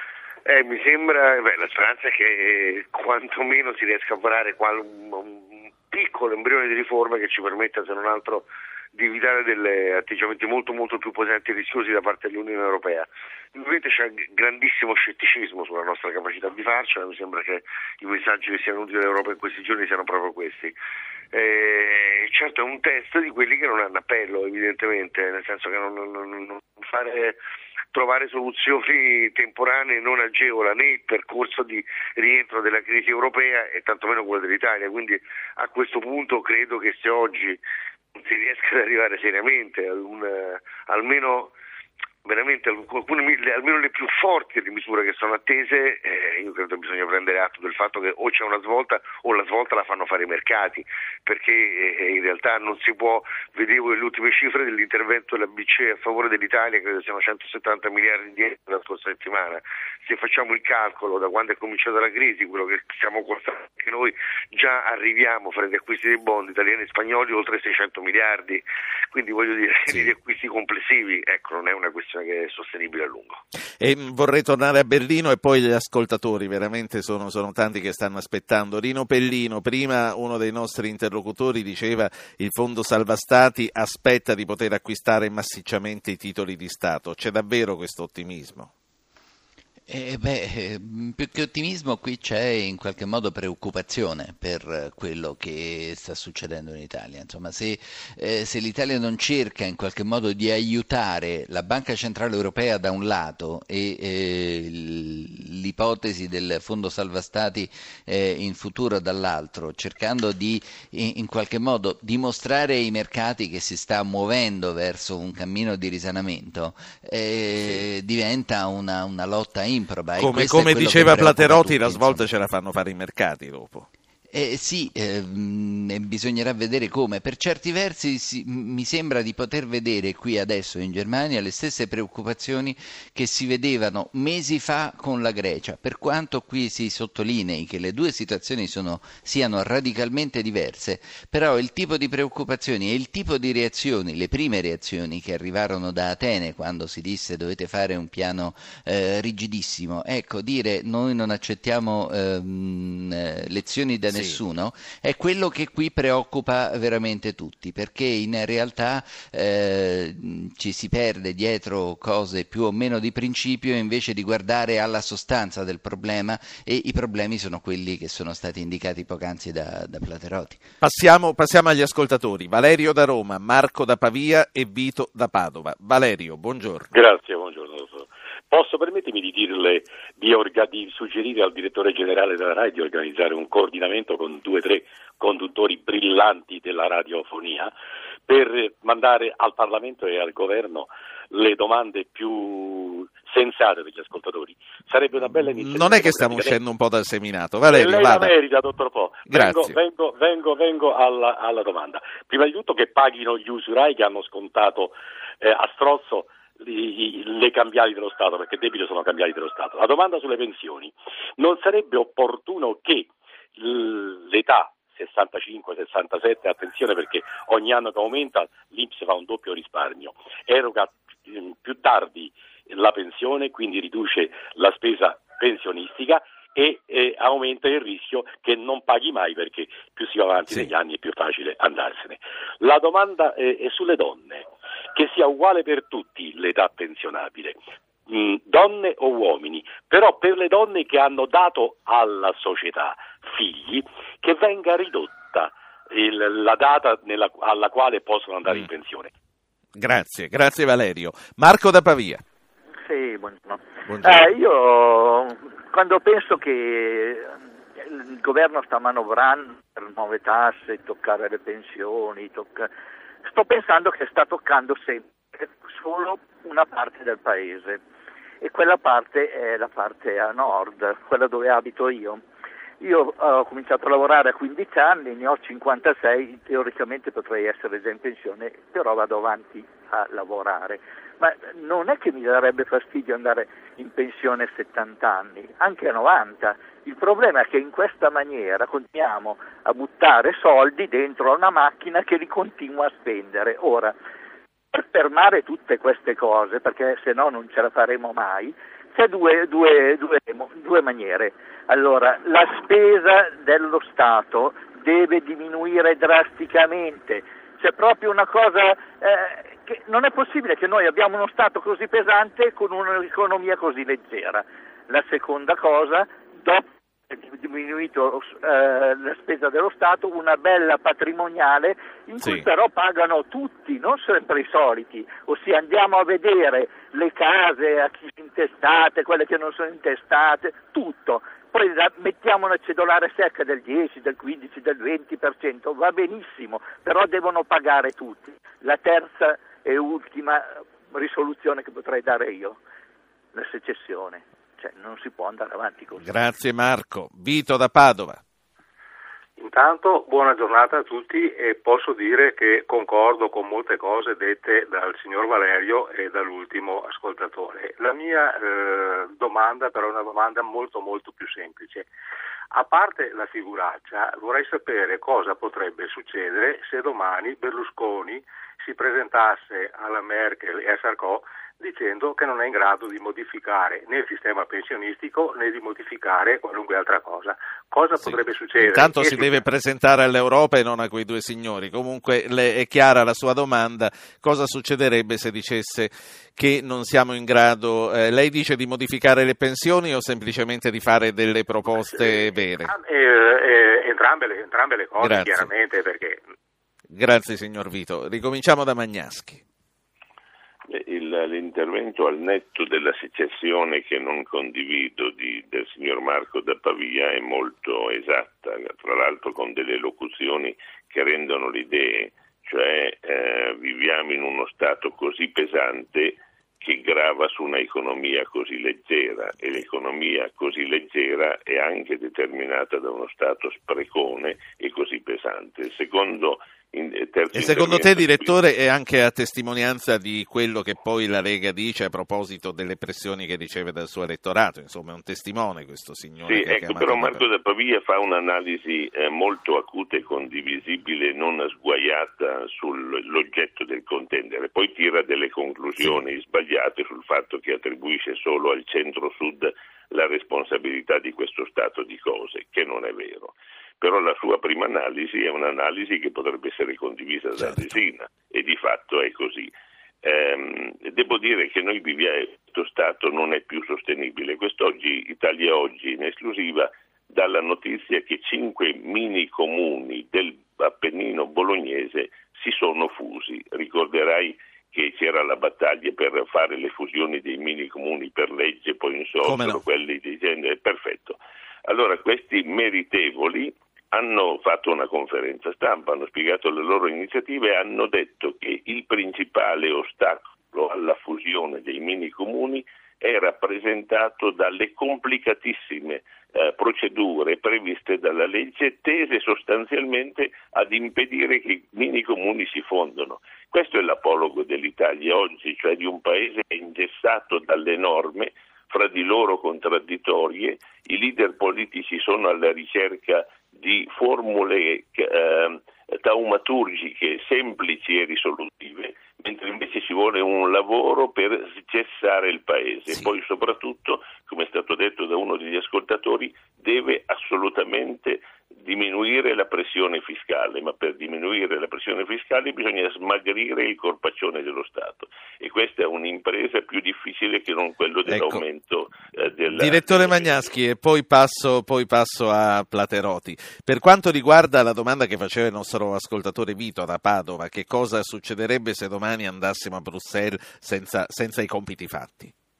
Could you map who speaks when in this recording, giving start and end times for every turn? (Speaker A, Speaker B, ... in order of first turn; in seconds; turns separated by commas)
Speaker A: 0.4-20.7, Speaker A: 21.3-27.4, Speaker A: 27.9-37.6, Speaker A: 38.1-41.5, Speaker A: 42.2-73.4, Speaker B: 73.8-88.7, Speaker C: 89.9-122.2, Speaker B: 120.2-123.9, Speaker C: 124.3-170.6, Speaker B: 154.1-154.4, Speaker B: 170.8-176.9, Speaker D: 176.9-187.7, Speaker D: 188.3-196.6, Speaker B: 195.2-198.3, Speaker D: 197.7-249.1, Speaker B: 199.3-199.8, Speaker B: 249.8-252.2, Speaker E: 252.8-262.7, Speaker B: 253.9-254.3, Speaker E: 263.2-267.8, Speaker E: 268.4-272.2, Speaker E: 272.8-293.9, Speaker E: 294.7-342.6, Speaker B: 322.2-322.5, Speaker E: 343.3-346.1, Speaker B: 346.0-348.2, Speaker F: 349.4-361.9, Speaker F: 362.5-379.4, Speaker B: 378.0-392.7, Speaker F: 391.7-396.2, Speaker B: 395.0-395.5, Speaker B: 396.9-399.4, Speaker G: 400.7-428.4, Speaker B: 427.3-437.3, Speaker G: 436.2-459.5, Speaker B: 457.4-457.8, Speaker G: 460.0-540.5, Speaker B: 479.2-479.6, Speaker B: 538.1-538.4, Speaker B: 539.5-552.3